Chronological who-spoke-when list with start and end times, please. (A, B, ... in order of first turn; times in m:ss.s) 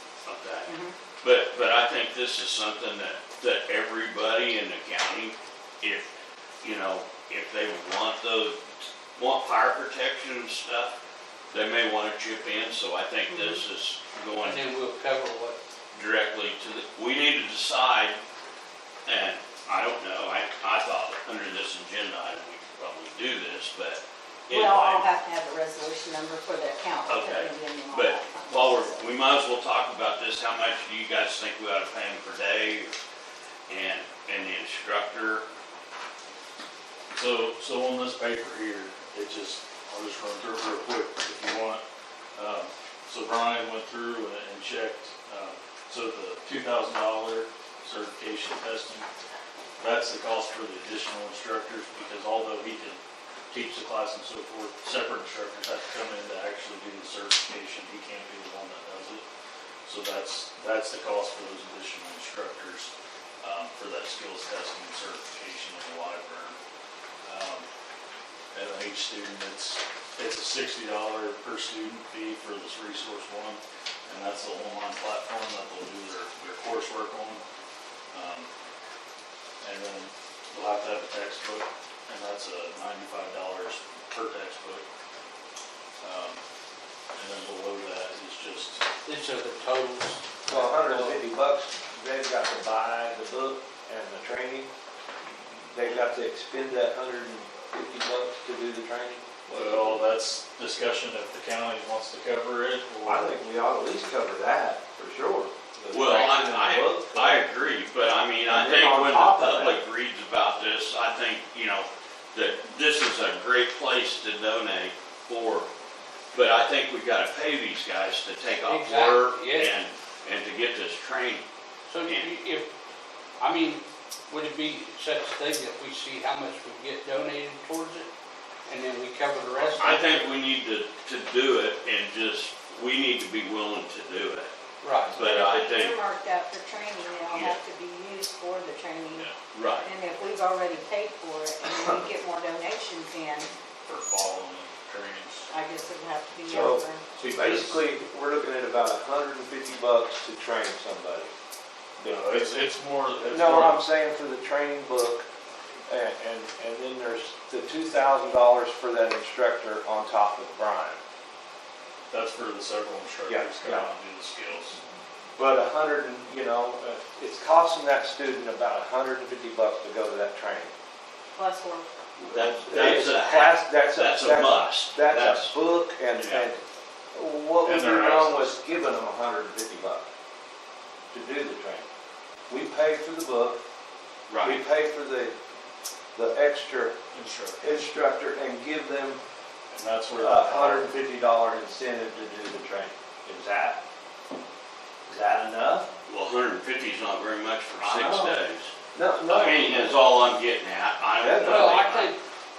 0:00.2-0:06.1 A
0:00.6-0:00.9 B
0:06.6-0:11.0 A
0:11.5-0:14.7 A
0:13.3-0:13.6 B
0:14.4-0:15.6 C
0:15.9-0:18.2 A
0:19.0-0:25.1 A
0:24.5-0:29.0 B
0:27.1-0:32.9 A
0:33.7-0:35.4 A
0:37.1-0:41.8 D
0:42.3-0:49.1 D
0:49.8-0:53.0 D
0:53.5-0:59.2 D
0:59.8-1:06.6 D
1:07.2-1:07.6 D
1:08.5-1:17.4 D
1:18.1-1:18.5 D
1:19.6-1:24.8 D
1:26.0-1:26.4 D
1:27.1-1:28.8 D
1:29.0-1:31.1 C
1:30.5-1:34.7 E
1:35.7-1:40.0 E
1:39.5-1:43.3 D
1:43.0-1:47.5 E
1:45.9-1:55.7 A
1:48.4-1:49.8 E
1:56.3-2:01.4 A
1:58.6-1:59.7 C
2:01.9-2:02.7 C
2:02.0-2:02.3 A
2:03.4-2:08.1 C
2:08.7-2:10.3 C
2:09.7-2:14.5 A
2:14.8-2:15.2 C
2:15.0-2:16.0 A
2:15.1-2:19.3 B
2:17.3-2:17.6 A
2:19.2-2:19.9 A
2:19.8-2:23.5 B
2:23.8-2:25.5 D
2:25.5-2:27.0 B
2:26.5-2:31.3 E
2:27.2-2:27.6 A
2:32.0-2:33.8 D
2:33.3-2:35.3 E
2:35.9-2:41.0 E
2:42.1-2:44.8 D
2:43.3-2:43.9 E
2:45.4-2:50.7 E
2:51.3-2:51.9 B
2:52.2-2:55.6 A
2:52.3-2:56.6 E
2:56.1-2:56.5 A
2:57.1-3:00.0 E
2:57.6-2:58.5 D
3:01.1-3:01.8 E
3:02.5-3:03.6 E
3:04.3-3:04.6 A
3:04.4-3:05.3 E
3:06.1-3:07.0 E
3:07.1-3:07.6 D
3:07.6-3:09.2 E
3:09.7-3:10.9 D
3:10.2-3:13.8 E
3:15.0-3:15.9 E
3:16.1-3:18.7 A
3:17.8-3:18.4 E
3:18.9-3:20.0 E
3:19.3-3:22.1 A
3:21.2-3:21.8 E
3:21.4-3:22.2 C